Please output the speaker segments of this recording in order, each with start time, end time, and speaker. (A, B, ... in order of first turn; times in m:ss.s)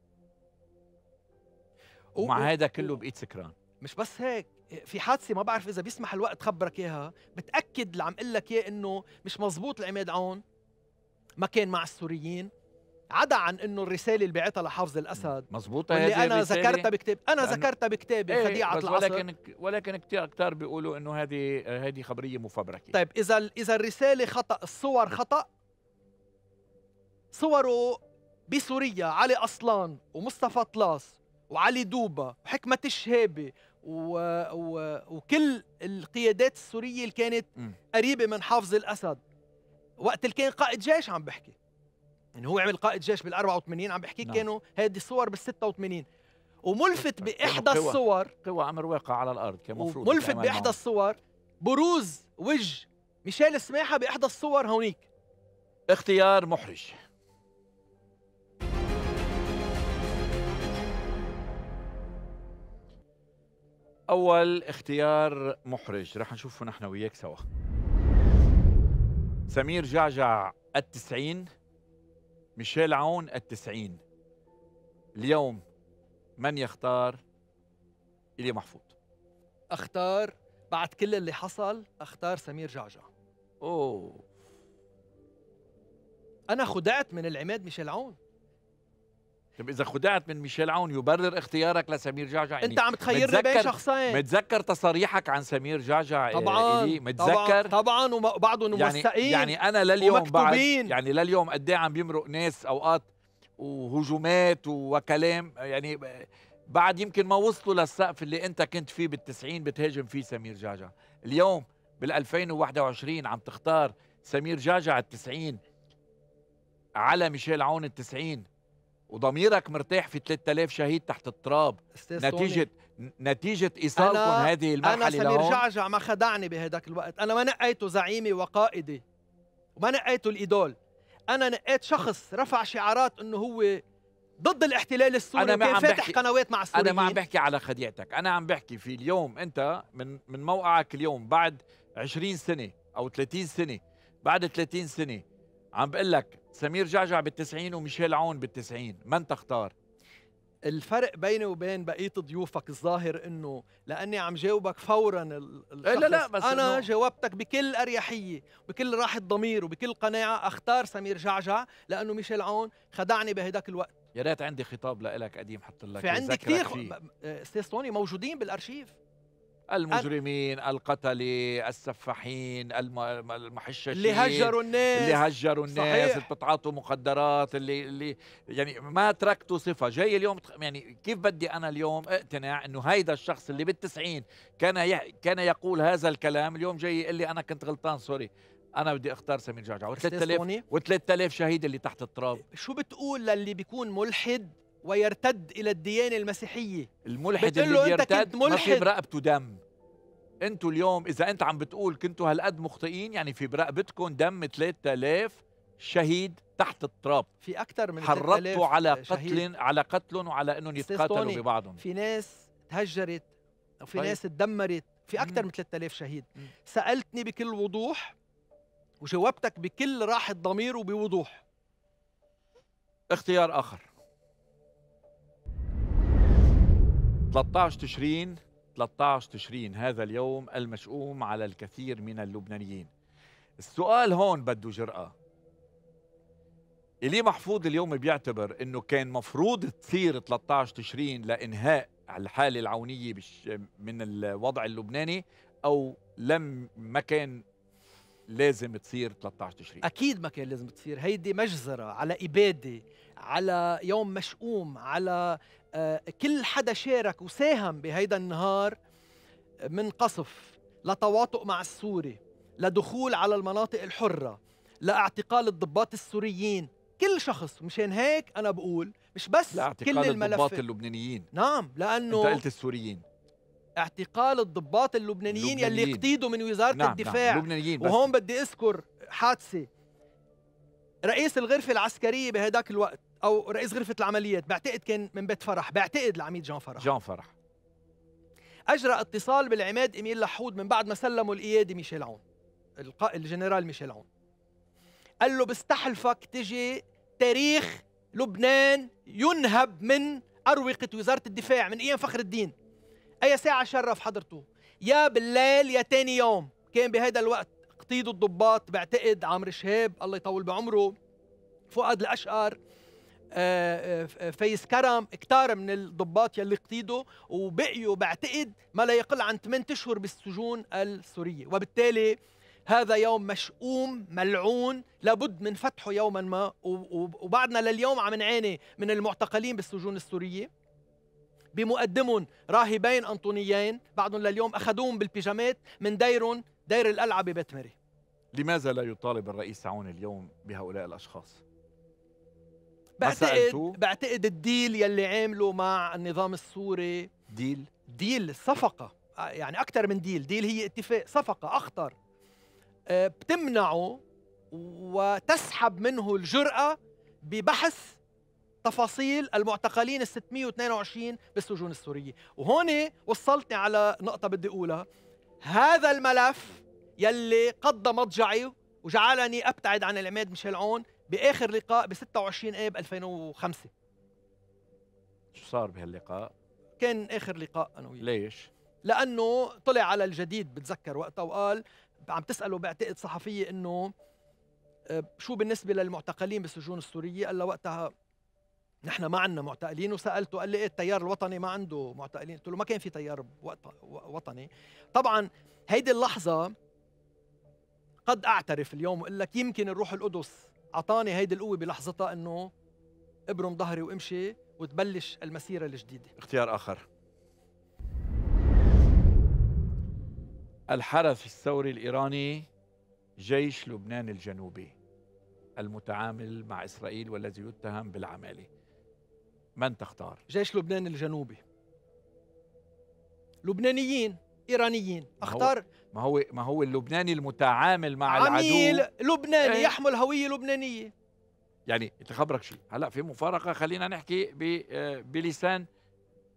0:02.2-0:02.9 A
0:02.2-0:03.6 B
0:03.8-0:10.4 A
0:11.4-0:12.5 A
0:13.1-0:19.2 A
0:15.5-0:16.9 B
0:17.4-0:17.7 B
0:18.3-0:22.9 B
0:22.9-0:25.5 A
0:27.3-0:39.2 A
0:40.0-0:41.6 A
0:42.4-0:46.1 A
0:46.6-0:48.3 A
0:47.2-0:50.8 B
0:49.8-0:55.1 A
0:55.9-0:57.0 B
1:04.1-1:07.4 B
1:09.5-1:11.5 B
1:12.6-1:14.0 B
1:15.2-1:15.6 B
1:16.4-1:17.2 B
1:18.4-1:18.9 B
1:19.7-1:23.1 A
1:23.6-1:24.2 B
1:26.5-1:28.2 A
1:29.6-1:37.7 B
1:32.6-1:34.2 A
1:36.3-1:40.9 A
1:38.7-1:43.1 B
1:43.6-1:55.6 B
1:57.0-1:58.5 B
1:59.1-2:05.6 B
2:02.0-2:02.7 A
2:04.0-2:09.0 A
2:09.8-2:10.8 A
2:11.3-2:13.8 A
2:14.4-2:17.2 A
2:15.4-2:16.2 B
2:16.7-2:25.2 B
2:25.8-2:29.7 B
2:30.7-2:44.0 A
2:35.8-2:36.9 B
2:44.1-2:47.0 B
2:46.0-2:49.0 A
2:49.7-3:12.4 B
2:53.9-2:56.3 A
3:10.0-3:10.6 A
3:12.4-3:18.9 A
3:17.0-3:19.6 B
3:20.4-3:27.3 B
3:27.4-3:29.4 A
3:28.0-3:31.8 B
3:30.8-3:33.3 A
3:33.8-3:38.2 A
3:35.2-3:35.4 B
3:39.0-3:41.4 A
3:43.1-3:43.9 B
3:47.3-3:52.9 B
3:53.6-3:55.1 B
3:57.0-4:07.4 B
4:08.3-4:09.8 B
4:09.8-4:18.8 A
4:19.7-4:30.6 A
4:29.5-4:31.3 B
4:31.3-4:32.4 A
4:32.1-4:33.0 B
4:33.8-4:39.7 A
4:35.3-4:36.1 B
4:36.7-4:38.1 B
4:41.0-4:46.9 A
4:46.8-4:47.3 B
4:48.7-4:52.2 A
4:52.8-4:54.1 A
4:55.2-5:02.5 A
5:03.2-5:11.0 A
5:11.7-5:12.6 A
5:13.3-5:30.5 A
5:31.5-5:37.8 A
5:38.3-5:41.4 B
5:43.0-5:47.1 A
5:43.0-5:43.8 B
5:47.3-5:47.7 B
5:47.9-5:51.9 A
5:52.9-5:54.0 A
5:54.5-5:58.0 A
5:58.6-6:04.8 A
6:05.4-6:13.7 A
6:15.3-6:16.3 B
6:16.8-6:18.0 A
6:18.0-6:18.5 B
6:18.8-6:23.9 A
6:24.9-6:27.9 A
6:28.8-6:36.5 A
6:38.1-6:42.5 A
6:43.3-6:46.1 A
6:46.2-6:46.9 B
6:50.7-6:52.5 B
6:53.2-6:54.8 B
6:55.6-6:58.5 B
6:59.6-7:00.2 B
7:00.3-7:01.4 A
7:03.4-7:05.6 A
7:05.2-7:08.8 B
7:08.1-7:10.9 A
7:09.4-7:09.8 B
7:11.7-7:15.7 B